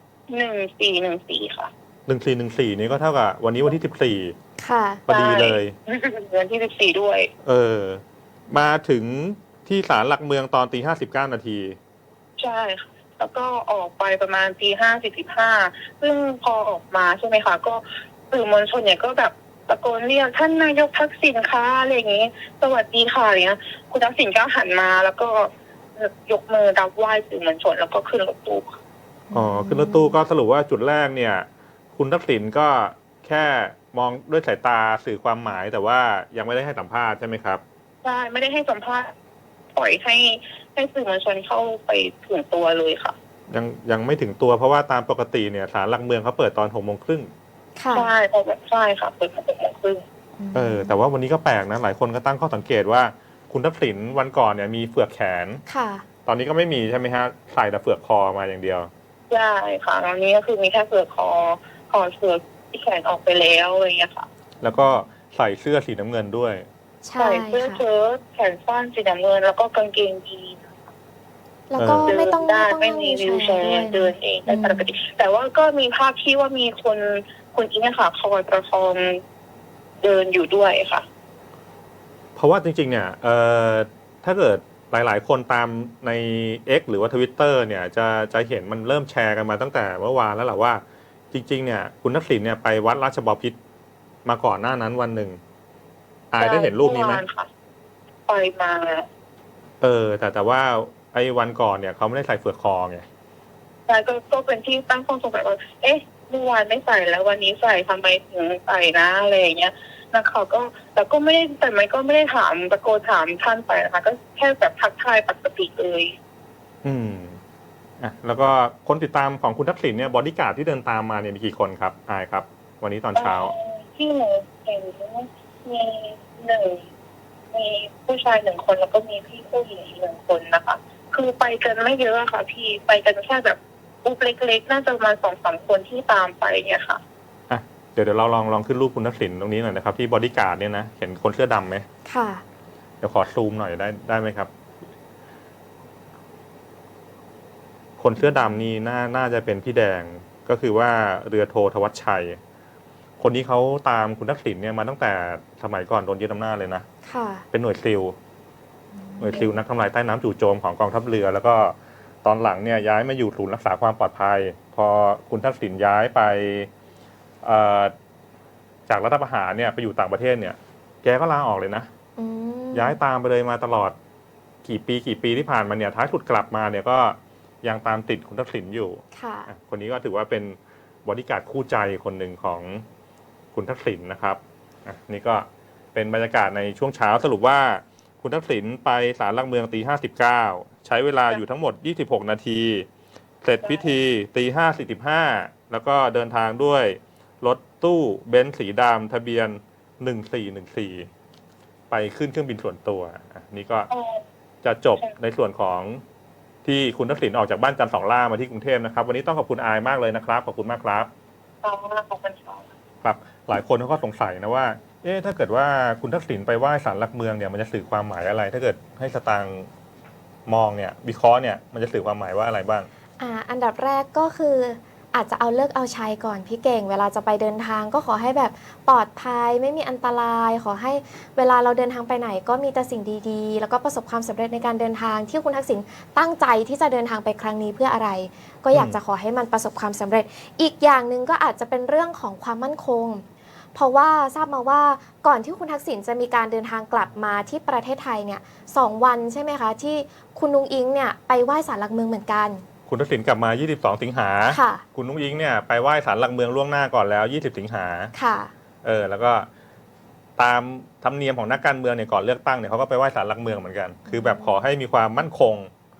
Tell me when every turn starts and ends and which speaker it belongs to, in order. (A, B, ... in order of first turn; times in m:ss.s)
0:00.3-0:01.7 A
0:02.1-0:04.3 B
0:04.6-0:05.0 C
0:05.1-0:05.7 B
0:05.1-0:07.3 A
0:07.4-0:11.8 B
0:12.4-0:28.8 A
0:29.3-0:30.2 C
0:29.3-0:37.6 B
0:38.0-0:39.1 A
0:39.7-0:43.2 A
0:43.5-0:47.3 B
0:47.8-0:48.1 C
0:47.9-0:50.0 A
0:50.4-0:51.0 C
0:50.5-0:55.6 B
0:55.7-0:56.0 C
0:56.2-0:58.9 B
0:59.3-1:04.3 A
1:04.6-1:06.7 B
1:07.0-1:07.8 C
1:07.2-1:10.7 A
1:11.7-1:14.9 C
1:11.8-1:12.1 B
1:12.0-1:19.2 A
1:20.0-1:21.0 A
1:22.4-1:33.6 B
1:34.2-1:35.4 B
1:36.3-1:37.2 B
1:36.4-1:37.5 A
1:38.3-1:39.0 A
1:39.8-1:43.0 B
1:43.9-1:56.1 A
1:56.8-1:57.4 B
1:58.0-2:03.5 B
2:03.2-2:06.8 A
2:07.5-2:17.0 A
2:17.5-2:21.8 B
2:22.0-2:22.4 C
2:23.0-2:24.5 B
2:28.0-2:32.4 B
2:28.2-2:28.6 C
2:33.2-2:36.8 B
2:37.0-2:37.4 C
2:37.5-2:38.2 B
2:39.0-2:39.5 C
2:39.2-2:46.7 B
2:47.4-2:47.9 B
2:48.9-2:51.9 B
2:52.2-2:53.0 C
2:52.7-2:53.9 B
2:54.6-3:02.8 B
2:59.1-2:59.5 C
3:03.5-3:12.9 B
3:13.4-3:21.1 B
3:13.6-3:13.9 A
3:21.9-3:23.9 B
3:23.9-3:24.2 A
3:24.6-3:26.0 B
3:26.6-3:31.1 B
3:31.6-3:32.6 A
3:33.0-3:39.7 B
3:40.5-3:42.9 B
3:43.2-4:03.2 C
4:03.7-4:12.6 C
4:12.9-4:18.1 B
4:14.5-4:14.8 C
4:18.1-4:18.5 C
4:18.8-4:19.5 B
4:20.4-4:25.7 B
4:24.1-4:24.6 C